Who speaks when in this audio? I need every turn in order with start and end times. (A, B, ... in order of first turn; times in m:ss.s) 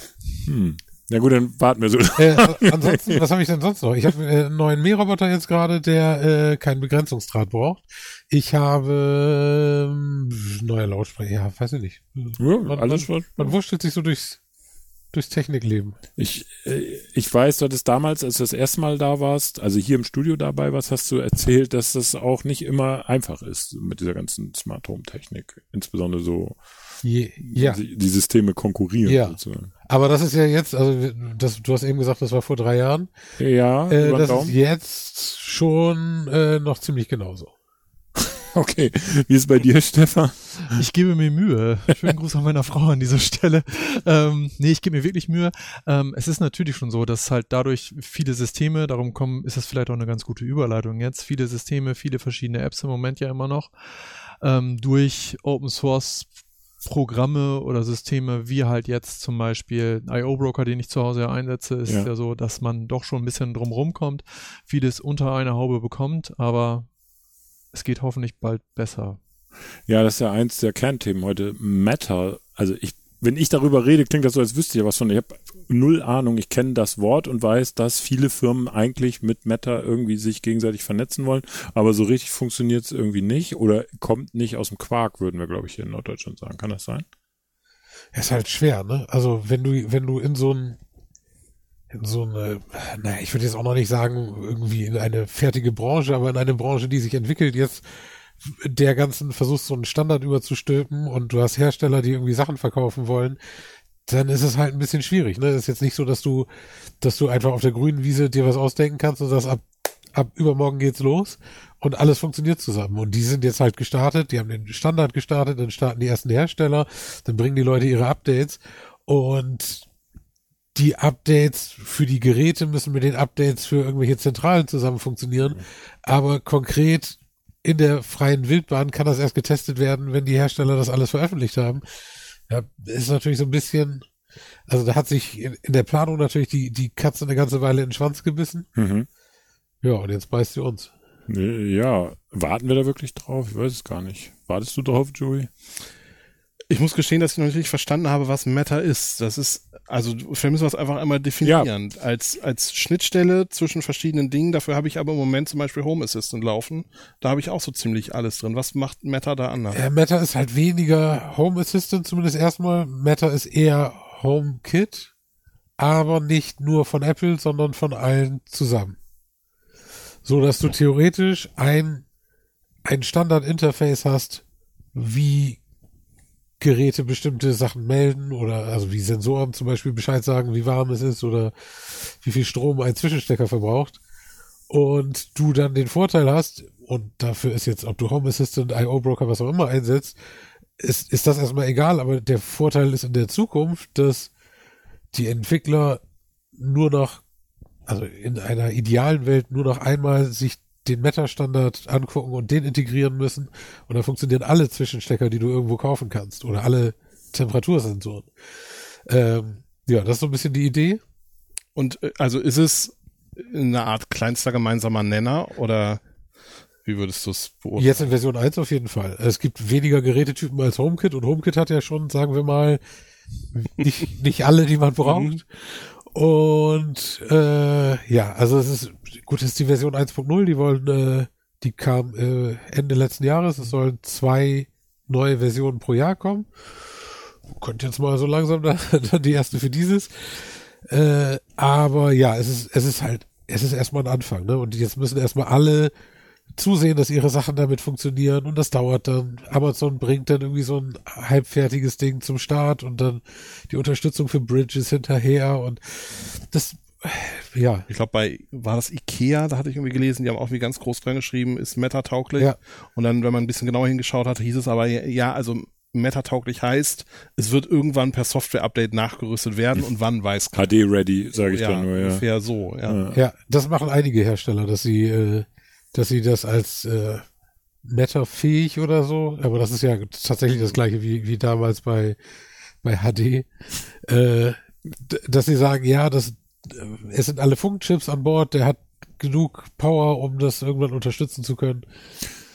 0:00.4-0:03.2 A
0:02.2-0:14.4 B
0:12.4-0:13.5 A
0:15.1-0:16.0 B
0:16.2-0:26.6 A
0:27.0-0:27.8 B
0:27.4-0:29.7 A
0:29.0-0:33.1 B
0:33.4-0:34.5 A
0:33.9-0:37.5 B
0:38.4-0:40.8 A
0:40.7-0:56.3 C
0:56.8-1:06.9 C
1:07.7-1:09.2 C
1:09.9-1:27.0 A
1:28.1-1:30.8 B
1:31.9-1:37.8 B
1:38.4-1:43.4 B
1:44.1-1:46.5 B
1:47.0-1:59.8 B
2:00.7-2:11.8 B
2:12.5-2:14.0 B
2:14.7-2:18.6 B
2:18.8-2:19.1 A
2:19.8-2:20.9 B
2:21.3-2:25.5 A
2:26.7-2:39.8 D
2:31.4-2:31.7 A
2:39.7-2:45.1 B
2:45.8-2:49.0 B
2:50.2-2:52.0 B
2:52.8-2:55.6 B
2:56.6-3:04.0 B
3:04.7-3:10.2 B
3:10.8-3:14.3 B
3:15.1-3:16.0 B
3:16.6-3:17.2 B
3:17.9-3:28.3 B
3:29.0-3:31.0 B
3:31.7-3:36.0 D
3:36.8-3:38.1 D
3:37.8-3:42.8 B
3:43.5-3:56.5 B
3:45.0-3:45.4 D
3:57.4-4:05.9 B
4:06.5-4:17.9 B
4:17.9-4:30.7 D
4:30.5-4:32.2 A
4:31.3-4:33.0 D
4:32.8-4:33.2 A
4:33.1-4:37.2 B
4:37.8-4:42.2 B
4:42.8-4:51.8 B